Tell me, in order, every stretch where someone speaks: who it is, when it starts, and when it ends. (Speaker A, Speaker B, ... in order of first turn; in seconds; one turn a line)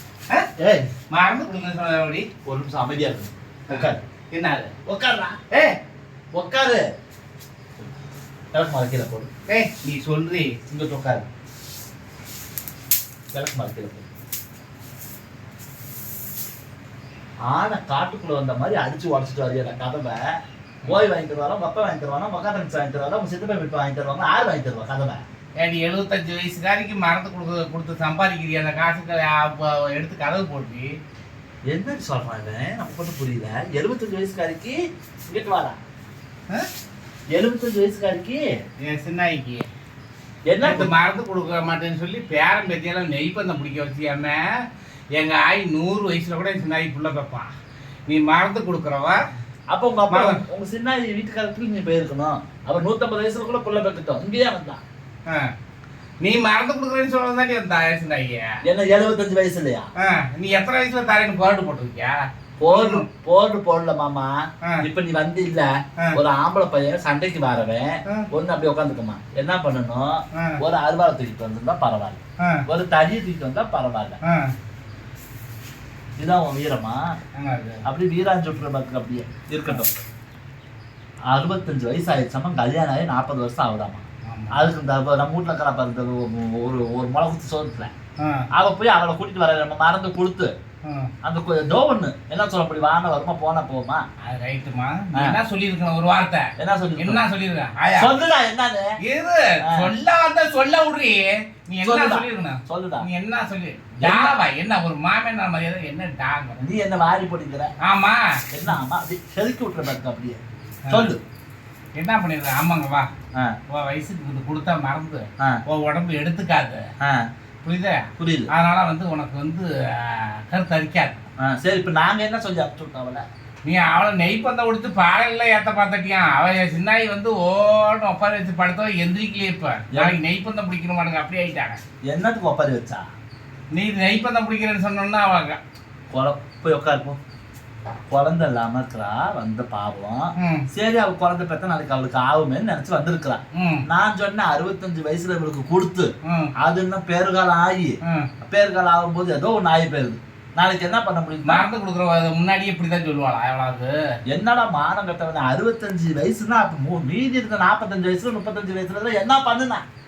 Speaker A: 0.6-0.9
Speaker B: 1.1-2.3
Speaker A: 2.4-4.0
Speaker B: 3.7-4.7
Speaker A: 4.8-5.4
Speaker B: 5.5-5.8
Speaker A: 6.3-6.9
Speaker A: 8.5-9.3
Speaker B: 9.5-10.6
Speaker A: 10.7-11.2
Speaker A: 13.3-14.1
Speaker A: 17.4-25.2
Speaker B: 25.6-31.0
Speaker A: 31.6-35.8
Speaker A: 37.3-38.5
Speaker B: 38.8-39.6
Speaker A: 40.5-40.9
Speaker B: 40.6-44.5
Speaker B: 45.1-47.5
Speaker B: 48.1-49.2
Speaker A: 49.7-54.8
Speaker B: 50.1-50.4
Speaker B: 55.3-55.5
Speaker B: 56.2-58.6
Speaker A: 58.6-59.9
Speaker B: 60.0-63.0
Speaker A: 62.6-74.2
Speaker B: 70.3-70.6
Speaker B: 74.2-74.5
Speaker A: 76.2-77.2
Speaker B: 77.4-77.8
Speaker A: 77.8-79.9
Speaker A: 81.3-87.9
Speaker B: 84.2-84.7
Speaker B: 88.2-88.5
Speaker A: 88.5-90.5
Speaker B: 90.8-91.1
Speaker A: 91.2-94.0
Speaker B: 94.2-98.1
Speaker A: 96.6-97.2
Speaker A: 97.9-98.9
Speaker B: 99.0-106.7
Speaker A: 99.7-99.9
Speaker A: 101.8-103.1
Speaker A: 104.0-104.3
Speaker A: 106.6-107.7
Speaker B: 107.8-108.8
Speaker A: 108.5-111.2
Speaker B: 110.9-111.1
Speaker B: 111.9-113.1
Speaker B: 113.7-116.8
Speaker A: 117.0-117.3
Speaker B: 117.6-121.2
Speaker A: 118.2-118.5
Speaker A: 121.4-123.2
Speaker B: 123.6-131.8
Speaker A: 129.9-130.2
Speaker A: 132.1-133.0
Speaker B: 133.7-135.6
Speaker A: 136.1-137.2
Speaker A: 138.1-151.7
Speaker B: 140.4-140.7
Speaker B: 143.5-143.8
Speaker B: 146.2-146.5
Speaker B: 151.4-153.9
Speaker A: 154.3-159.8